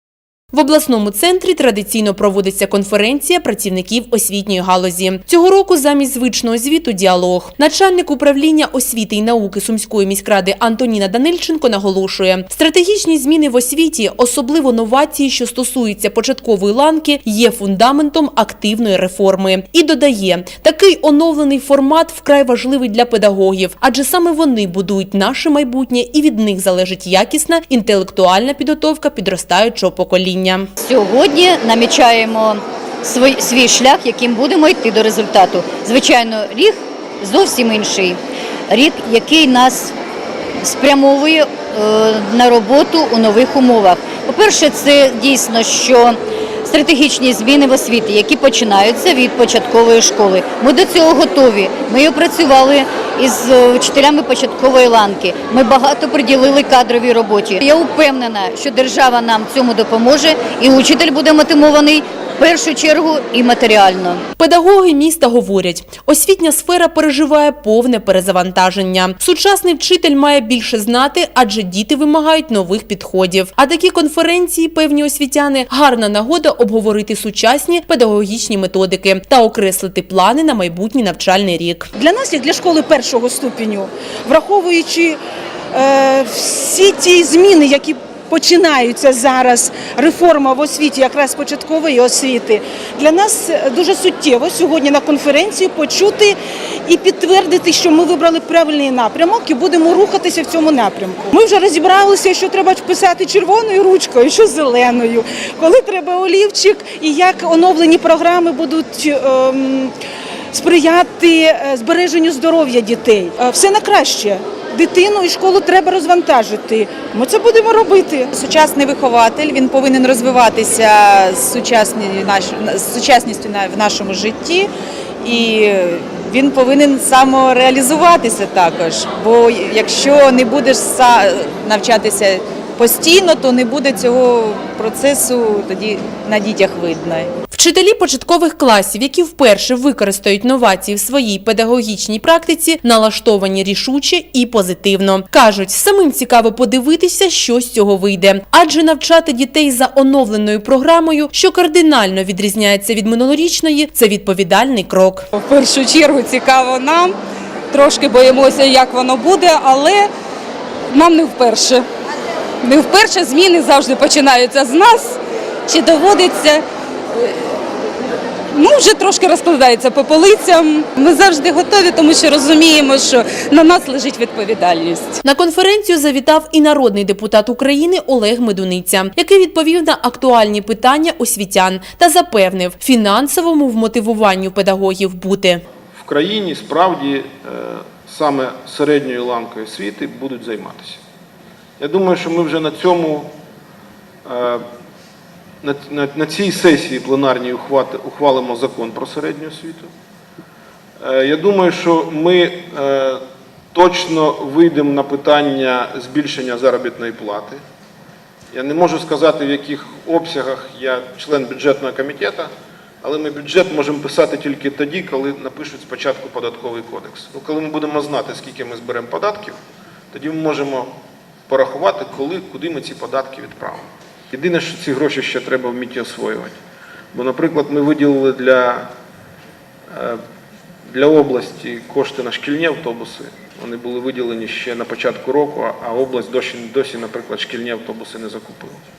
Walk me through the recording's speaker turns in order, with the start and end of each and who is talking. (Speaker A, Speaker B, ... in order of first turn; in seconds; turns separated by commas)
Speaker A: 0.5-30.7, Speaker B: 30.8-40.0, Speaker B: 40.6-64.2, Speaker A: 64.4-81.9, Speaker C: 82.0-85.2, Speaker C: 85.7-109.9, Speaker C: 110.5-118.4, Speaker D: 118.4-124.7, Speaker D: 125.2-137.3, Speaker A: 137.5-155.2, Speaker E: 155.3-157.2, Speaker E: 157.7-160.1, Speaker E: 160.9-161.9, Speaker E: 162.6-167.5, Speaker E: 168.5-175.2, Speaker A: 175.2-185.6, Speaker F: 185.9-191.0, Speaker F: 191.8-193.3, Speaker F: 194.2-194.6, Speaker F: 195.6-199.9, Speaker F: 201.0-203.2, Speaker F: 203.7-207.6, Speaker F: 208.5-212.5, Speaker F: 213.0-219.6, Speaker F: 220.1-220.9, Speaker F: 221.5-226.6, Speaker F: 227.1-228.9, Speaker F: 229.9-230.2, Speaker F: 230.9-238.8